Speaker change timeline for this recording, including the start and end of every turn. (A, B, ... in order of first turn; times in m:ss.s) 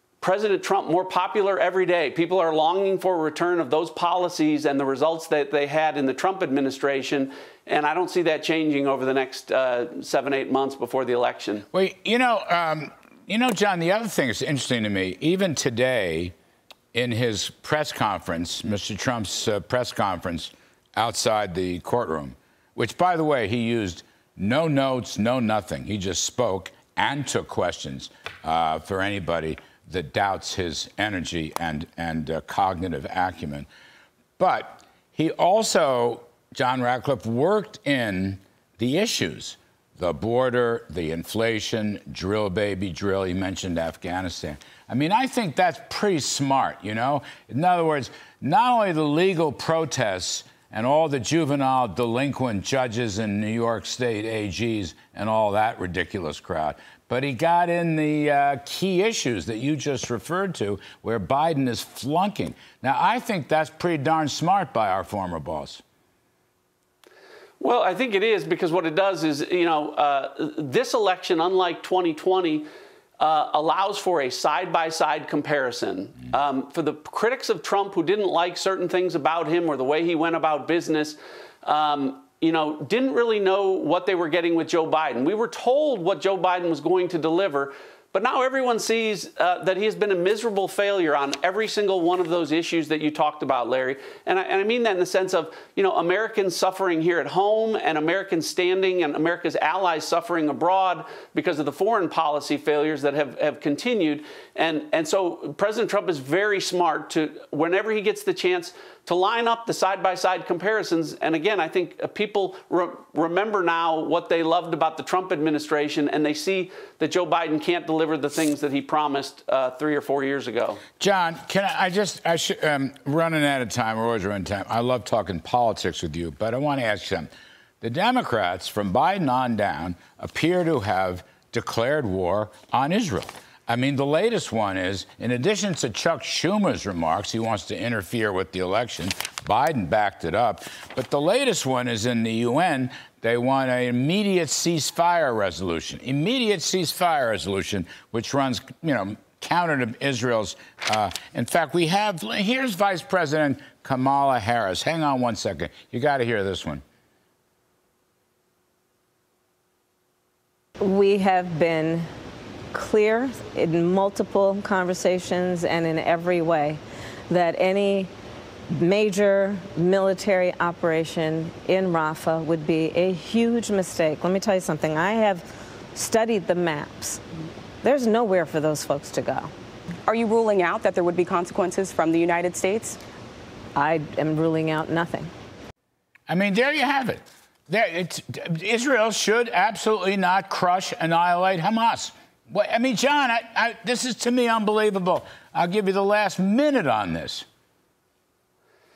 0:00.2-0:11.7 A
0:11.7-0:16.3 B
0:16.9-0:33.7 B
0:34.4-1:05.8 B
1:07.6-1:12.7 A
1:13.2-2:00.8 A
2:01.0-2:07.3 B
2:07.8-2:36.8 B
2:40.9-2:42.0 C
2:43.0-2:43.2 C
2:43.8-2:46.8 C
2:47.3-2:48.1 C
2:48.9-2:55.4 C
2:56.0-2:57.2 C
2:57.8-2:59.5 C
3:00.1-3:03.0 D
3:03.8-3:05.2 C
3:06.3-3:17.4 B